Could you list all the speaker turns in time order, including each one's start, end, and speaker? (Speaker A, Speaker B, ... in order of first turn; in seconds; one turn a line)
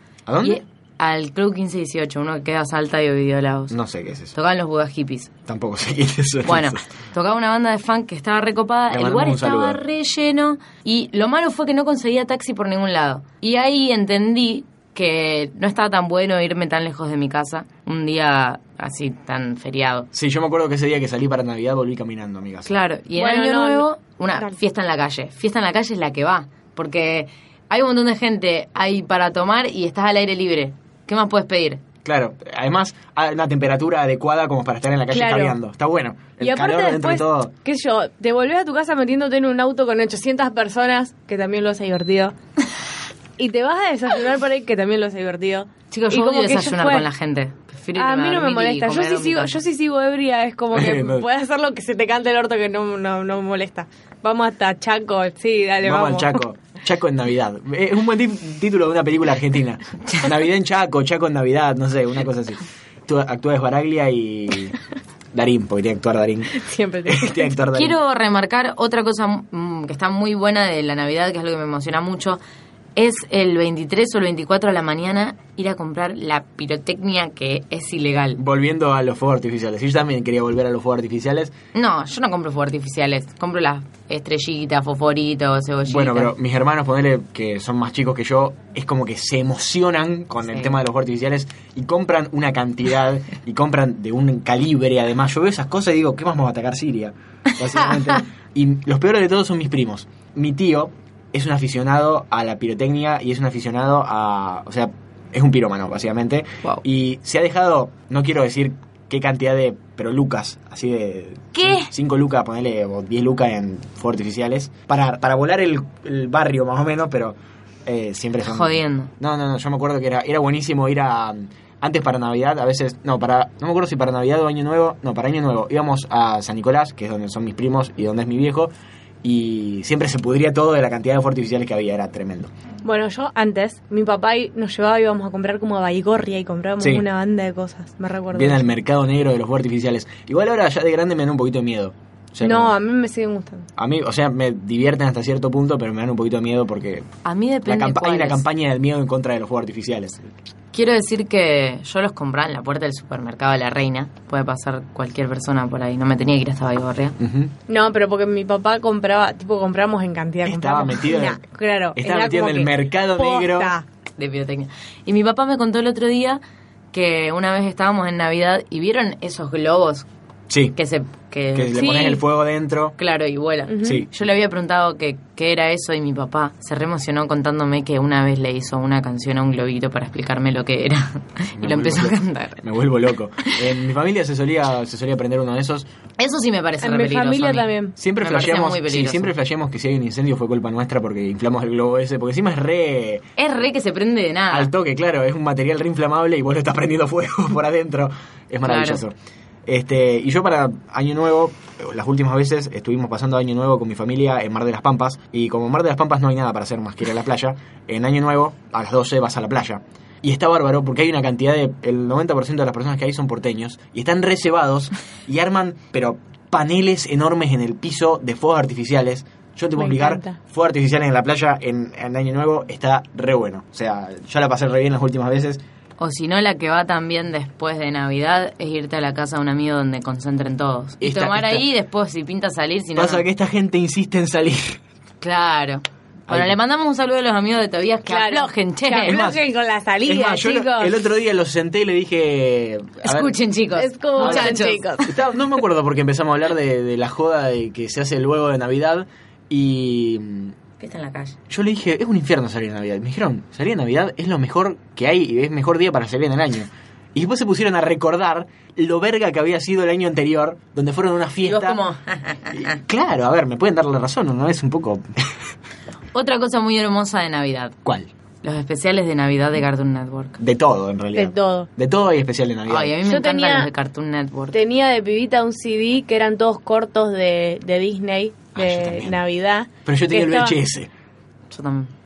Speaker A: 0.3-0.6
Speaker B: 0.4-3.8
Speaker A: 3.7-4.3
Speaker B: 4.3-5.3
Speaker A: 5.5-6.8
Speaker B: 6.5-20.1
Speaker A: 8.9-9.8
Speaker A: 20.1-22.7
Speaker B: 22.7-31.8
Speaker C: 23.2-23.9
Speaker A: 32.0-37.5
Speaker C: 35.1-35.6
Speaker C: 36.4-42.4
Speaker C: 43.4-47.1
Speaker B: 45.9-49.6
Speaker C: 48.0-56.4
Speaker A: 50.7-51.3
Speaker A: 55.8-64.8
Speaker A: 65.3-66.5
Speaker C: 66.5-67.5
Speaker A: 67.1-68.0
Speaker B: 67.7-72.4
Speaker B: 73.0-78.4
Speaker A: 78.4-81.5
Speaker B: 81.8-86.3
Speaker A: 85.8-128.7
Speaker B: 90.5-90.8
Speaker B: 97.9-98.2
Speaker B: 111.5-111.9
Speaker B: 118.5-119.1
Speaker A: 129.2-132.5
Speaker C: 132.8-138.7
Speaker A: 136.8-137.1
Speaker A: 138.3-142.7
Speaker C: 142.4-143.7
Speaker A: 143.8-147.1
Speaker B: 147.2-148.4
Speaker A: 147.7-150.3
Speaker B: 150.7-157.2
Speaker A: 157.2-157.5
Speaker C: 157.7-163.8
Speaker A: 160.4-161.4
Speaker A: 162.0-163.7
Speaker B: 164.2-166.4
Speaker B: 166.9-170.1
Speaker A: 170.5-170.8
Speaker B: 170.8-172.2
Speaker A: 171.5-173.0
Speaker B: 173.0-182.6
Speaker C: 173.7-174.0
Speaker A: 181.6-185.9
Speaker B: 186.2-189.3
Speaker C: 186.8-187.9
Speaker A: 188.0-193.2
Speaker B: 193.4-194.7
Speaker A: 194.5-199.1
Speaker B: 198.7-199.0
Speaker A: 199.7-225.6
Speaker C: 219.8-220.4
Speaker B: 226.0-233.2
Speaker A: 231.0-231.7
Speaker A: 233.0-234.8
Speaker B: 235.2-239.2
Speaker A: 236.3-236.5
Speaker C: 238.1-241.0
Speaker A: 239.0-239.4
Speaker A: 240.1-243.4
Speaker B: 243.0-245.1
Speaker C: 243.7-245.1
Speaker A: 244.2-250.6
Speaker B: 250.8-251.4
Speaker A: 251.5-261.8
Speaker B: 261.5-262.8
Speaker A: 262.5-265.3
Speaker B: 266.1-267.8
Speaker A: 267.9-268.1
Speaker B: 268.4-270.4
Speaker A: 270.4-272.9
Speaker C: 271.1-271.7
Speaker B: 272.7-274.6
Speaker C: 273.1-273.7
Speaker C: 274.5-280.6
Speaker A: 278.6-279.2
Speaker A: 279.9-280.9
Speaker B: 281.5-281.9